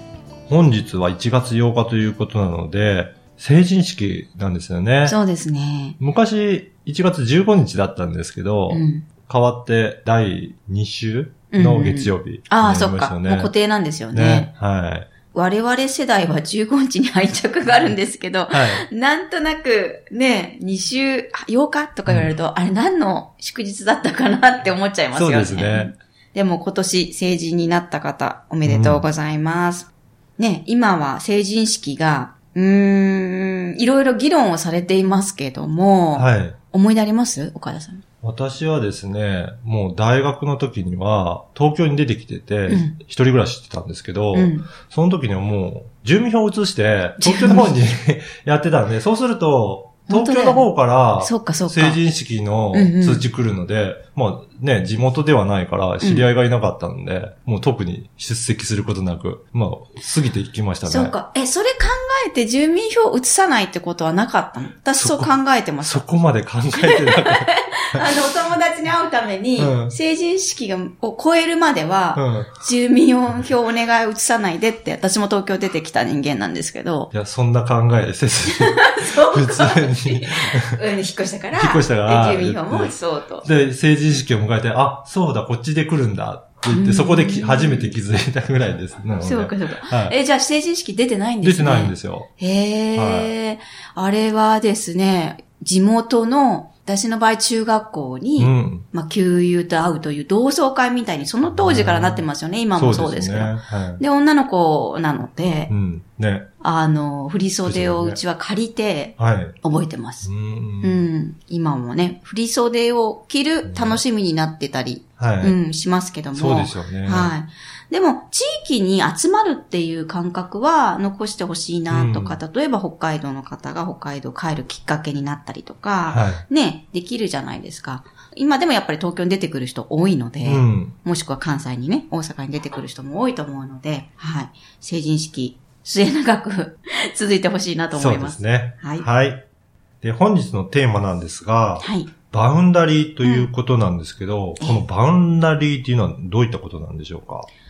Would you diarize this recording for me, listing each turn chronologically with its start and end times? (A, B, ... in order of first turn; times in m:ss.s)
0:00.5-0:05.2 A
0:05.1-0:06.0 B
0:06.0-0:13.5 A
0:08.7-0:09.1 B
0:11.5-0:14.5 B
0:14.1-0:15.1 A
0:15.3-0:38.0 B
0:18.5-0:18.8 A
0:25.1-0:25.9 A
0:28.6-0:29.1 A
0:36.2-0:36.6 A
0:38.2-1:01.2 A
0:42.7-0:43.0 B
0:44.3-0:44.7 B
0:47.2-0:47.8 B
0:50.1-0:50.7 B
0:51.2-0:52.0 B
0:52.7-0:53.2 B
0:56.0-0:56.3 B
1:00.9-1:06.0 B
1:05.0-1:08.1 A
1:06.8-1:17.1 B
1:09.6-1:10.0 A
1:12.2-1:12.5 A
1:17.1-1:20.8 A
1:18.5-1:23.5 B
1:21.6-1:30.2 A
1:26.7-1:27.9 B
1:29.2-1:45.7 B
1:31.4-1:32.3 A
1:33.0-1:33.3 A
1:38.4-1:38.9 A
1:41.5-1:44.0 A
1:45.7-1:46.5 A
1:46.6-1:50.3 B
1:47.6-1:48.2 A
1:49.2-1:49.6 A
1:50.2-1:51.0 A
1:50.8-2:19.1 B
1:53.6-1:54.0 A
1:55.2-1:55.6 A
1:56.3-1:57.3 A
2:01.9-2:02.4 A
2:06.1-2:06.4 A
2:10.4-2:11.0 A
2:17.9-2:19.4 A
2:20.0-2:27.5 A
2:21.8-2:22.1 B
2:23.2-2:23.5 B